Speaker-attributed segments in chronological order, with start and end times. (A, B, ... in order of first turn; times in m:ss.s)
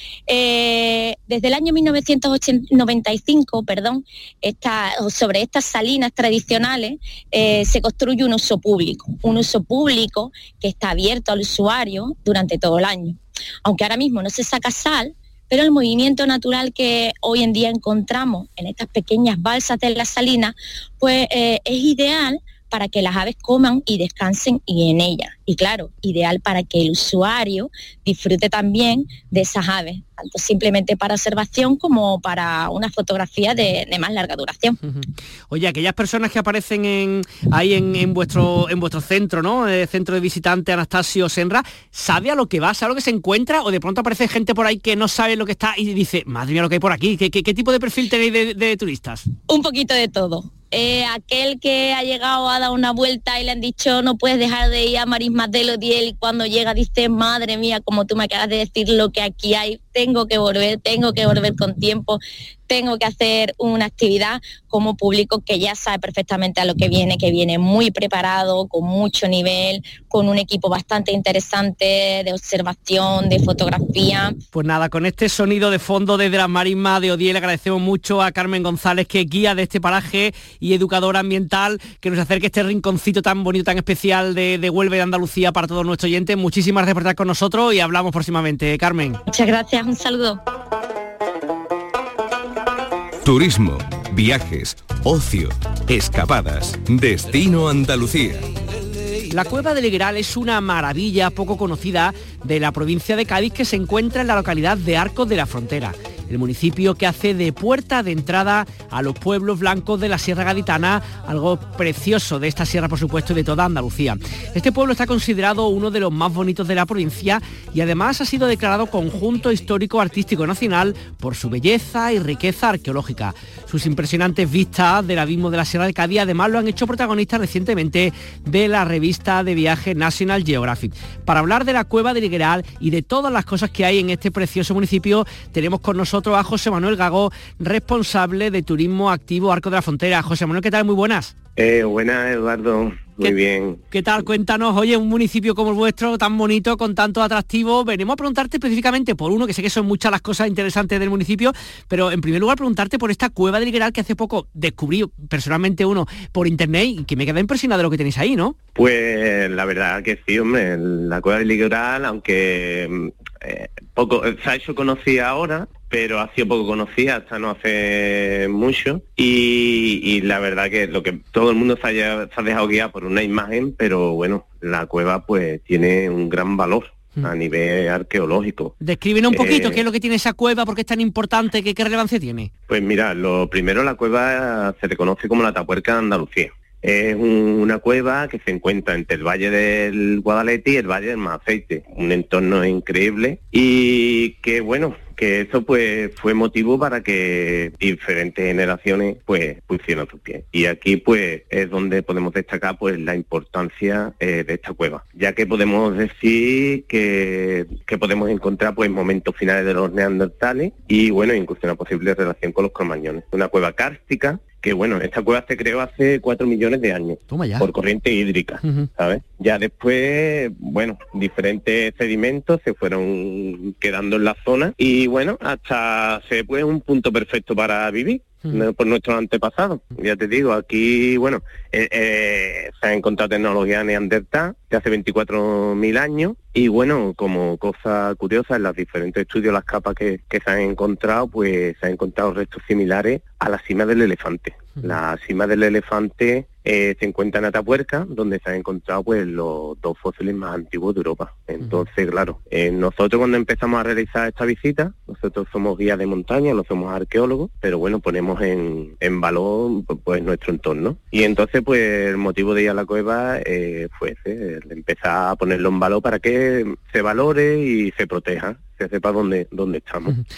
0:00.3-0:34.8 A
0:34.8-0:49.3 B
0:49.5-1:14.4 A
1:14.5-1:29.2 B
1:29.3-1:30.4 A
1:33.2-1:38.4 C
1:39.3-2:21.3 B
2:21.6-2:23.8 D
2:23.9-2:38.6 B
2:38.8-2:58.8 D
2:58.8-3:02.5 B
2:59.3-2:59.8 D
3:02.7-4:30.2 D
3:37.3-3:37.7 B